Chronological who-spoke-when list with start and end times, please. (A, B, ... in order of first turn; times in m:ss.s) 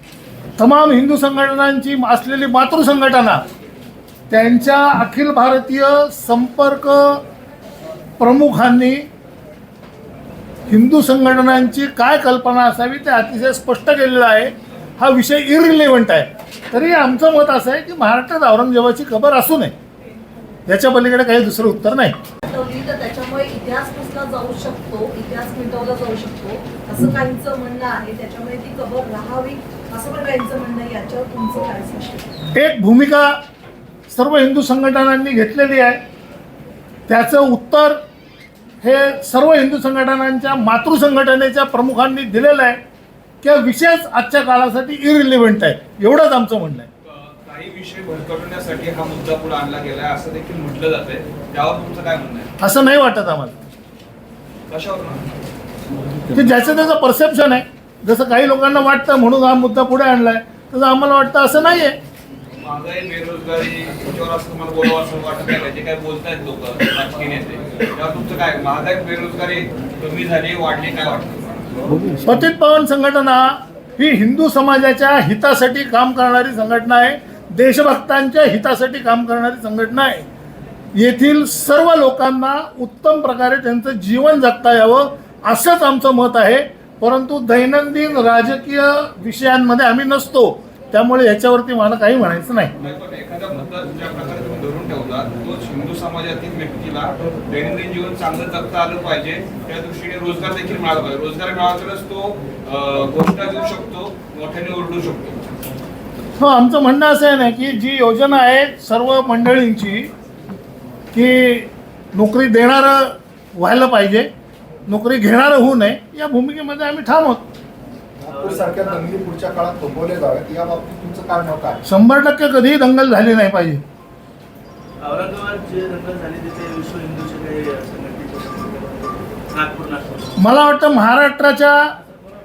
0:00.6-0:03.4 A
0:04.3-0:07.2 A
0:08.2-0:09.0 A
0:10.7-0:19.7 A
0:20.7-0:22.2 A
0:22.4-0:32.2 B
0:32.5-0:33.4 A
0:34.1-0:36.0 A
0:37.1-0:38.0 A
0:38.8-0:42.8 A
0:43.4-0:46.9 A
0:47.0-0:52.5 C
0:52.6-0:53.6 A
0:54.7-0:55.2 C
0:56.3-1:02.0 A
1:02.6-1:11.4 C
1:12.2-1:20.3 A
1:21.0-1:32.7 A
1:32.8-1:45.4 C
1:46.4-1:50.1 A
1:51.1-1:54.3 A
1:54.9-1:57.4 A
1:58.2-2:01.8 D
1:58.3-1:59.0 E
2:01.8-2:03.8 A
2:05.0-2:10.3 E
2:10.4-2:11.8 A